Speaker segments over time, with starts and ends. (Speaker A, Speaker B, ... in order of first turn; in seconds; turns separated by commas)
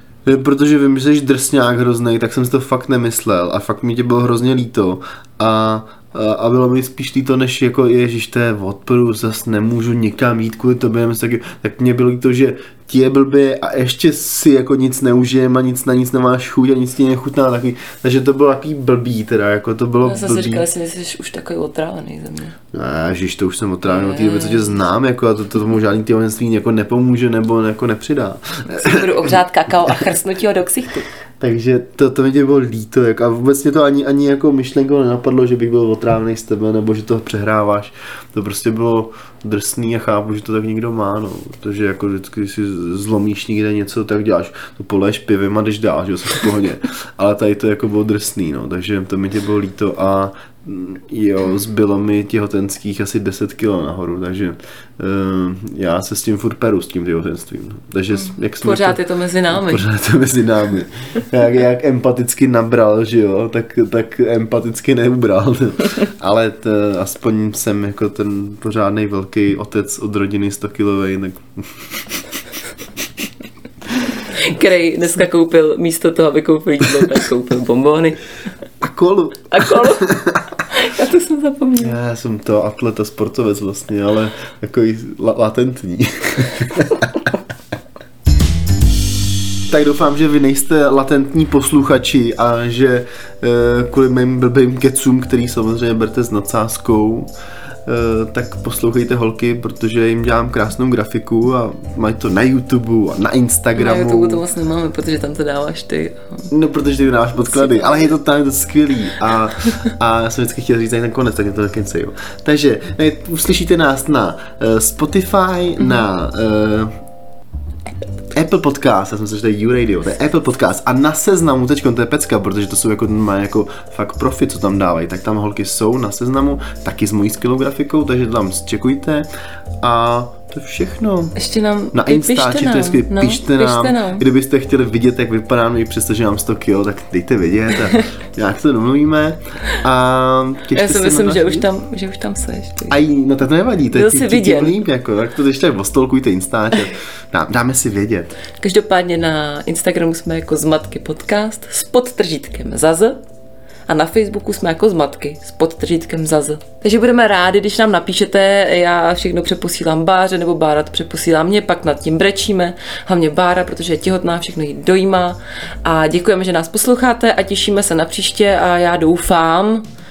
Speaker A: 0.2-20.6, Speaker B: 20.0-22.6, Speaker A: 22.7-29.3, Speaker B: 23.8-24.8, Speaker B: 28.7-31.1, Speaker A: 31.4-59.0, Speaker B: 58.6-59.8, Speaker A: 59.5-72.2, Speaker B: 74.3-78.2, Speaker A: 78.8-80.5, Speaker B: 79.5-80.1, Speaker B: 80.7-82.0, Speaker A: 81.8-87.3, Speaker A: 89.7-97.3, Speaker A: 97.8-104.4, Speaker B: 103.7-106.5, Speaker A: 106.5-116.9, Speaker B: 107.5-108.1, Speaker A: 118.3-129.3, Speaker A: 129.8-131.3, Speaker B: 131.3-134.2, Speaker A: 131.9-141.7, Speaker B: 140.7-143.0, Speaker A: 142.9-148.3, Speaker B: 143.9-144.8, Speaker B: 148.6-153.2, Speaker B: 153.9-169.8